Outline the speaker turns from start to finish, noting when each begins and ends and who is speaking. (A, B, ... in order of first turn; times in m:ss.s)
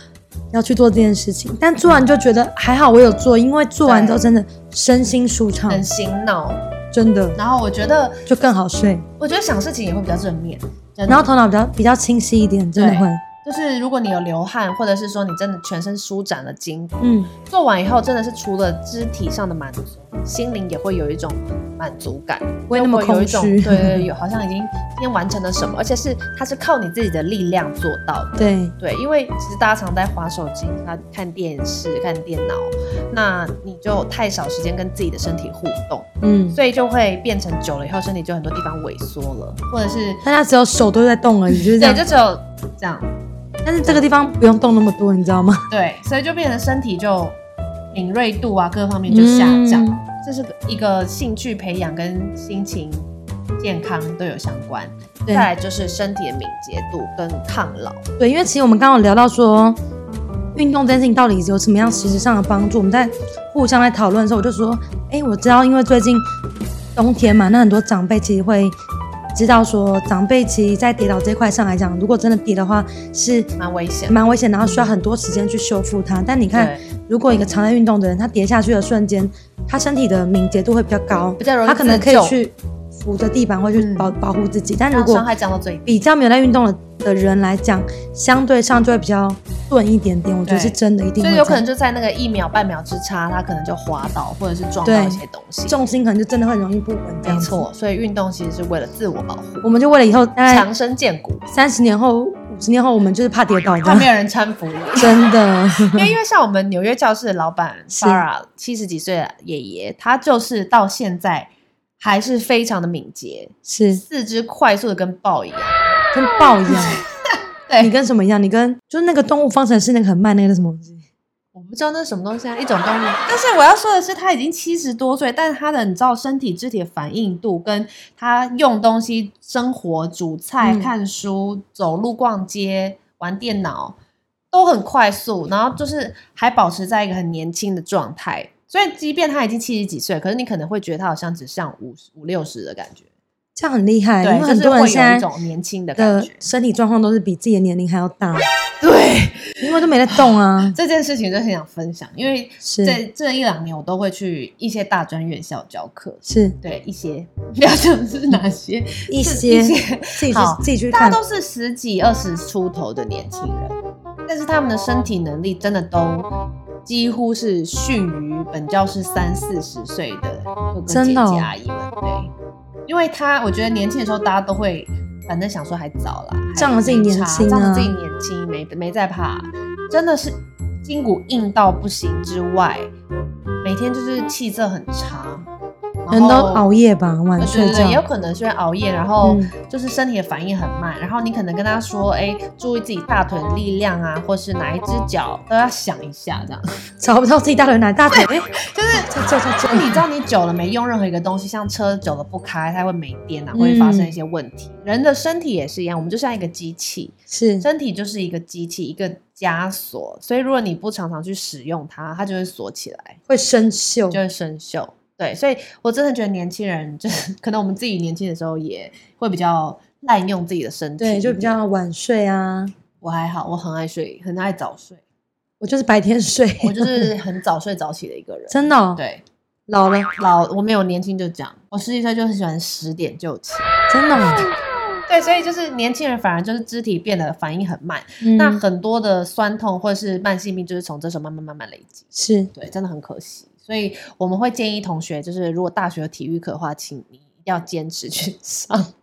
0:00.5-0:05.9 A
0:03.8-0:04.2 B
0:05.7-0:06.6 B
0:06.9-0:07.4 A
0:07.4-0:08.2 B
0:08.3-0:09.1 A
0:09.2-0:11.3 B
0:11.1-0:13.2 A
0:12.8-0:40.2 B
0:17.0-0:17.3 A
0:22.7-0:24.1 A
0:28.4-0:28.7 A
0:36.2-0:36.6 A
0:40.2-0:42.0 A
0:41.7-0:43.1 B
0:43.6-0:45.6 A
0:45.7-0:47.4 B
0:47.9-0:53.1 B
0:49.1-0:50.0 A
0:53.6-0:58.0 B
0:58.2-0:59.8 A
1:00.6-1:06.2 A
1:07.0-1:08.8 A
1:09.3-1:13.5 A
1:13.6-1:14.9 B
1:14.1-1:25.2 A
1:16.5-1:16.8 B
1:21.4-1:22.4 B
1:23.7-1:24.1 B
1:24.9-1:26.0 B
1:25.9-1:31.6 A
1:30.4-1:35.8 B
1:34.8-1:37.6 A
1:37.2-1:39.7 B
1:39.6-1:40.7 A
1:40.5-1:41.4 B
1:41.5-1:44.1 A
1:43.8-1:45.2 B
1:45.0-1:46.1 A
1:45.9-1:55.8 B
1:48.0-1:48.2 A
1:53.7-1:54.0 A
1:56.1-1:57.0 A
1:56.7-1:57.0 B
1:57.7-1:57.9 B
1:57.8-2:01.0 A
2:01.6-2:14.0 B
2:10.6-2:10.9 A
2:14.5-2:23.0 B
2:23.6-2:25.3 A
2:24.2-2:26.4 B
2:26.0-2:28.5 A
2:28.8-2:43.8 B
2:29.6-2:30.8 A
2:32.6-2:33.0 A
2:36.3-2:36.6 A
2:39.1-2:41.2 A
2:44.3-2:46.3 B
2:46.8-2:52.3 B
2:50.9-2:51.5 A
2:52.9-3:02.9 B
2:56.6-2:57.9 A
3:03.6-3:05.5 B
3:06.0-3:06.7 B
3:06.1-3:08.0 A
3:07.4-3:16.8 B
3:09.2-3:09.5 A
3:17.0-3:20.0 A
3:18.1-3:19.1 B
3:19.7-3:33.2 B
3:23.5-3:24.2 A
3:27.3-3:27.7 A
3:33.3-3:34.2 A
3:34.1-3:41.6 B
3:41.0-3:42.7 A
3:43.0-3:45.0 B
3:45.6-3:47.1 A
3:46.6-3:49.2 B
3:48.5-3:49.0 A
3:49.7-3:50.1 A
3:50.2-3:54.2 B
3:53.9-3:54.5 A
3:55.1-4:08.9 B
3:58.2-3:58.6 A
4:02.2-4:02.5 A